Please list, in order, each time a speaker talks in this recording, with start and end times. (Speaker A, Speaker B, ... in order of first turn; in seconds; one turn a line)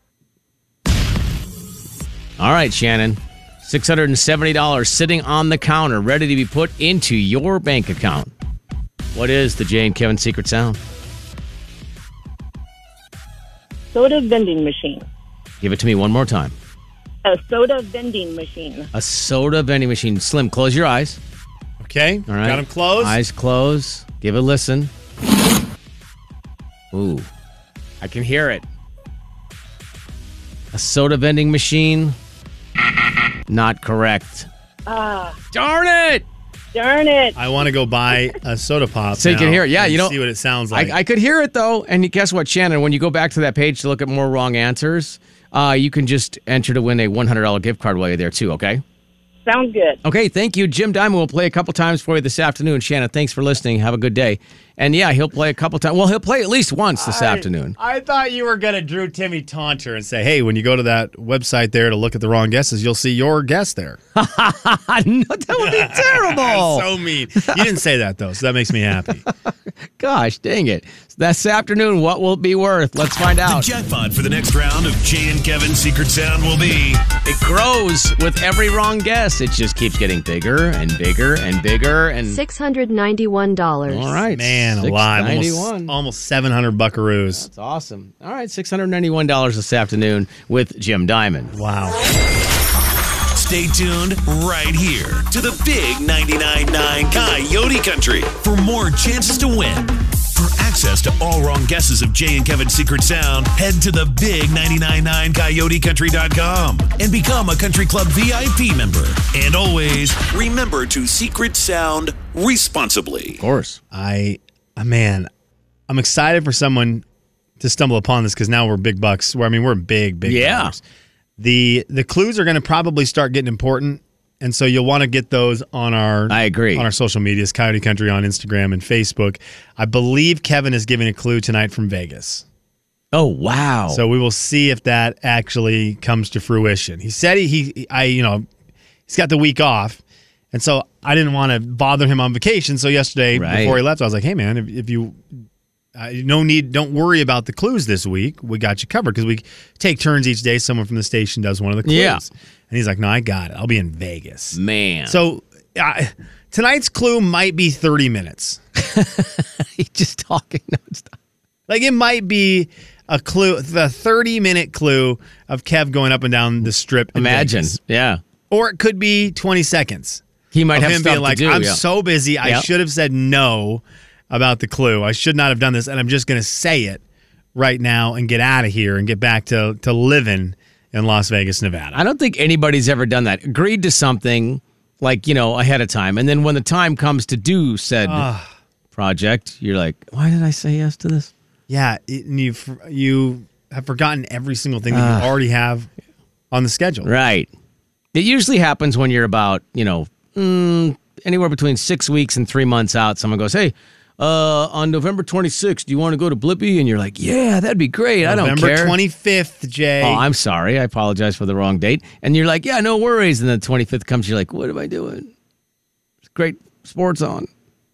Speaker A: 2.4-8.3
Speaker A: 9.1-10.8
Speaker B: 13.9-15.1
Speaker A: 15.6-16.6
Speaker B: 17.2-18.9
Speaker A: 18.9-21.2
Speaker C: 21.8-23.2
Speaker A: 22.3-24.9
Speaker A: 26.9-27.3
Speaker A: 28.0-28.6
Speaker A: 30.7-32.2
Speaker A: 33.5-34.5
Speaker B: 34.9-35.4
Speaker A: 35.5-36.2
Speaker B: 36.7-37.4
Speaker C: 37.4-41.0
Speaker A: 39.2-40.2
Speaker A: 40.7-48.8
Speaker B: 49.5-50.0
Speaker A: 50.0-57.8
Speaker C: 57.0-64.0
Speaker A: 64.2-66.9
Speaker C: 65.6-69.2
Speaker A: 69.5-73.7
Speaker D: 73.5-77.0
Speaker A: 77.2-82.4
Speaker E: 82.3-84.2
Speaker A: 83.9-86.0
Speaker C: 84.3-87.5
Speaker A: 87.3-91.5
Speaker C: 91.5-92.0
Speaker D: 93.3-113.4
Speaker A: 113.4-113.8
Speaker C: 113.9-115.3
Speaker C: 115.9-117.0
Speaker C: 117.6-120.8
Speaker A: 120.2-120.7
Speaker C: 121.4-132.4
Speaker A: 126.3-126.9
Speaker A: 133.1-134.0
Speaker C: 133.9-138.5
Speaker C: 139.1-140.0
Speaker C: 140.5-145.2
Speaker A: 143.3-143.8
Speaker C: 146.0-158.6
Speaker A: 151.8-152.2
Speaker A: 154.5-155.2
Speaker A: 158.8-161.2
Speaker C: 161.7-167.8
Speaker A: 167.2-168.2
Speaker C: 168.5-170.2
Speaker A: 170.5-171.8
Speaker C: 170.7-177.0
Speaker A: 172.4-172.7
Speaker C: 177.6-182.0
Speaker A: 181.9-188.3
Speaker C: 188.1-188.5
Speaker A: 188.9-191.3
Speaker C: 191.7-195.9
Speaker A: 194.9-195.3
Speaker C: 196.5-197.1
Speaker A: 197.0-197.5
Speaker A: 198.1-209.0
Speaker C: 208.2-210.2
Speaker A: 210.0-215.3
Speaker A: 216.3-217.5